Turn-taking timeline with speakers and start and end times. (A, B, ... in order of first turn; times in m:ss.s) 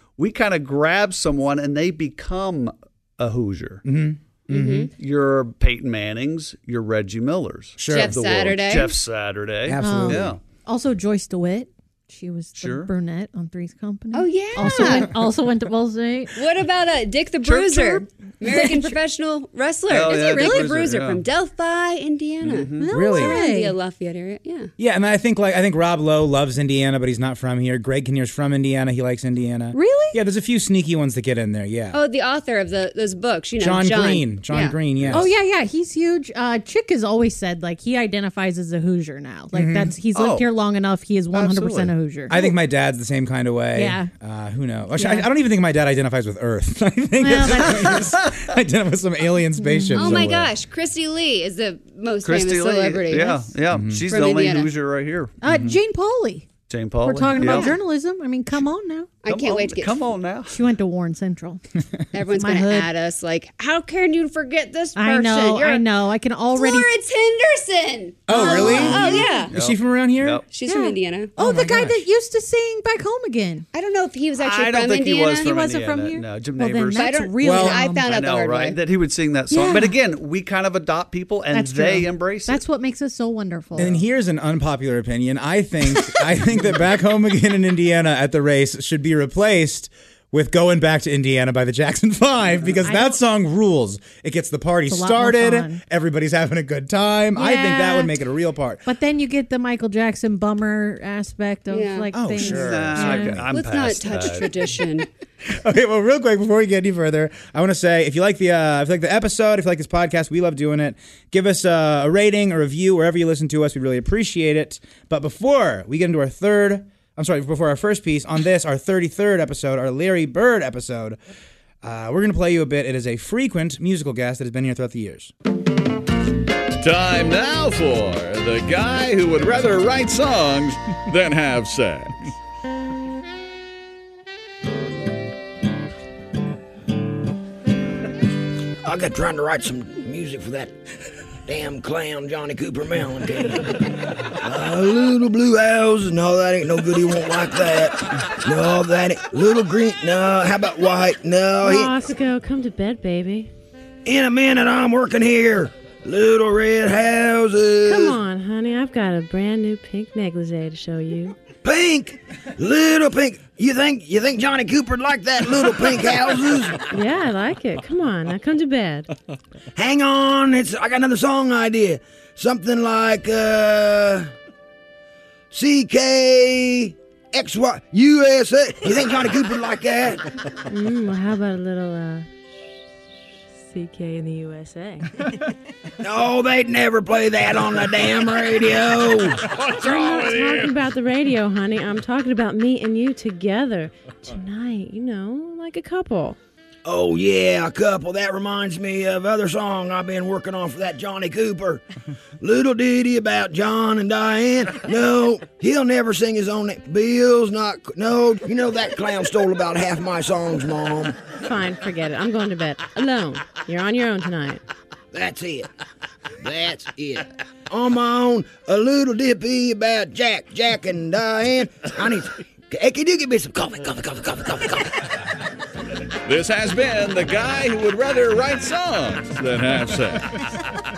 0:00.2-0:03.8 A
0:03.8-0:04.9 B
0:04.5-0:04.9 C
0:05.0-0:10.4 A
0:07.8-0:08.2 B
0:07.9-0:08.9 C
0:09.7-0:10.3 B
0:09.8-0:16.4 D
0:12.6-0:12.9 A
0:14.1-0:15.1 C
0:16.3-0:24.7 C
0:17.4-0:18.9 D
0:19.9-0:21.2 A
0:20.1-0:20.8 D
0:22.4-0:22.9 A
0:22.8-0:23.7 D
0:22.9-0:23.4 B
0:24.8-0:32.0 B
0:29.7-0:30.2 D
0:31.9-0:34.8 C
0:33.6-0:35.3 B
0:35.1-0:42.5 D
0:39.5-0:39.9 B
0:40.1-0:40.5 A
0:41.3-0:41.9 A
0:42.3-0:50.5 B
0:43.7-0:44.1 D
0:45.0-0:45.3 D
0:47.2-0:48.1 D
0:49.6-0:50.2 D
0:49.9-0:53.5 C
0:52.2-0:55.3 A
0:53.7-0:54.0 B
0:54.1-0:54.7 C
0:55.4-0:56.5 D
0:55.4-0:55.8 B
0:56.7-0:57.7 A
0:57.0-0:59.1 D
0:57.4-0:57.8 C
0:59.2-1:00.0 C
0:59.3-1:00.6 A
1:00.5-1:01.6 D
1:02.1-1:05.8 C
1:02.3-1:02.9 D
1:05.0-1:06.9 D
1:06.6-1:09.5 C
1:08.3-1:10.4 B
1:08.3-1:09.4 D
1:09.5-1:10.4 A
1:10.5-1:11.3 C
1:10.6-1:13.6 D
1:11.4-1:12.0 B
1:13.7-1:15.5 C
1:14.4-1:17.2 A
1:15.4-1:18.1 D
1:17.0-1:18.8 C
1:17.4-1:17.8 B
1:18.0-1:22.6 A
1:19.5-1:20.0 D
1:21.5-1:24.0 D
1:23.8-1:38.9 B
1:32.8-1:33.2 D
1:34.9-1:35.8 D
1:37.4-1:38.1 D
1:38.8-1:43.4 D
1:41.7-1:42.6 C
1:42.1-1:43.5 B
1:42.4-1:44.8 A
1:43.5-1:45.1 C
1:45.5-2:01.2 B
2:01.8-2:05.3 B
2:06.8-2:12.1 E
2:18.8-2:20.7 F
2:21.5-2:23.8 F
2:24.4-2:31.9 F
2:31.6-2:33.5 G
2:34.0-2:38.2 F
2:37.8-2:41.4 G
2:41.6-2:46.9 F
2:46.9-2:49.1 G
2:49.7-2:54.3 F
2:55.5-3:00.2 F
3:00.7-3:02.3 G
3:03.6-3:05.1 G
3:06.0-3:09.4 F
3:09.6-3:16.4 G
3:09.8-3:10.5 E
3:16.8-3:21.8 F
3:22.4-3:31.1 F
3:31.4-3:34.6 G
3:35.1-3:35.7 F
3:36.4-3:45.0 F
3:46.2-3:50.3 E